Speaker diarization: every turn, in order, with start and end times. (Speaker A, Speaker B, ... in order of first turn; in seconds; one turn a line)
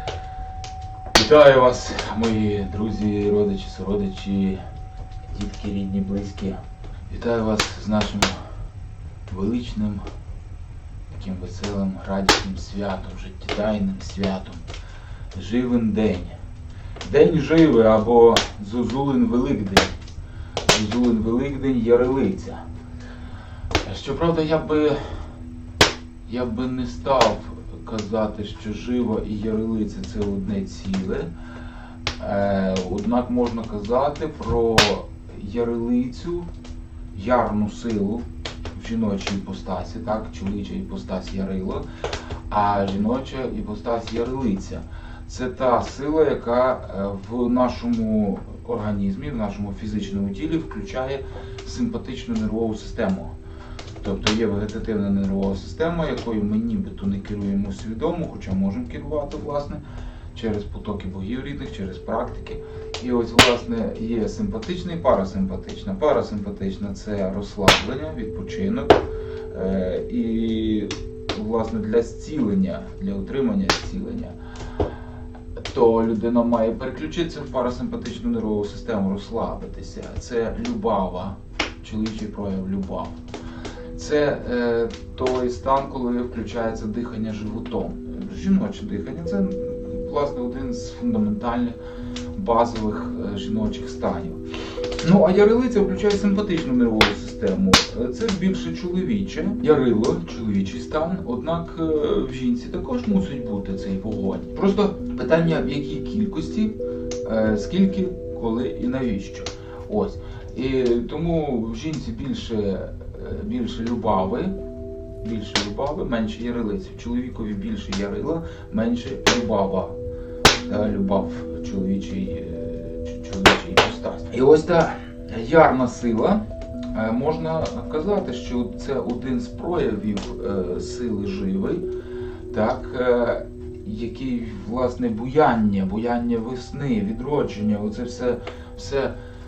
Speaker A: 1.1-4.6
Speaker A: 5.3-6.6
Speaker A: 7.1-8.4
Speaker A: 9.3-10.0
Speaker A: 11.1-14.6
Speaker A: 15.3-16.3
Speaker A: 17.0-19.9
Speaker A: 20.7-22.6
Speaker A: 23.8-25.0
Speaker A: 26.2-31.3
Speaker A: 32.2-36.5
Speaker A: 37.1-38.2
Speaker A: 38.8-41.8
Speaker A: 42.5-53.3
Speaker A: 54.0-59.8
Speaker A: 60.3-74.3
Speaker A: 75.6-83.1
Speaker A: 83.9-91.8
Speaker A: 92.3-94.4
Speaker A: 95.0-114.5
Speaker A: 115.2-119.9
Speaker A: 120.6-126.4
Speaker A: 126.9-131.8
Speaker A: 132.5-139.1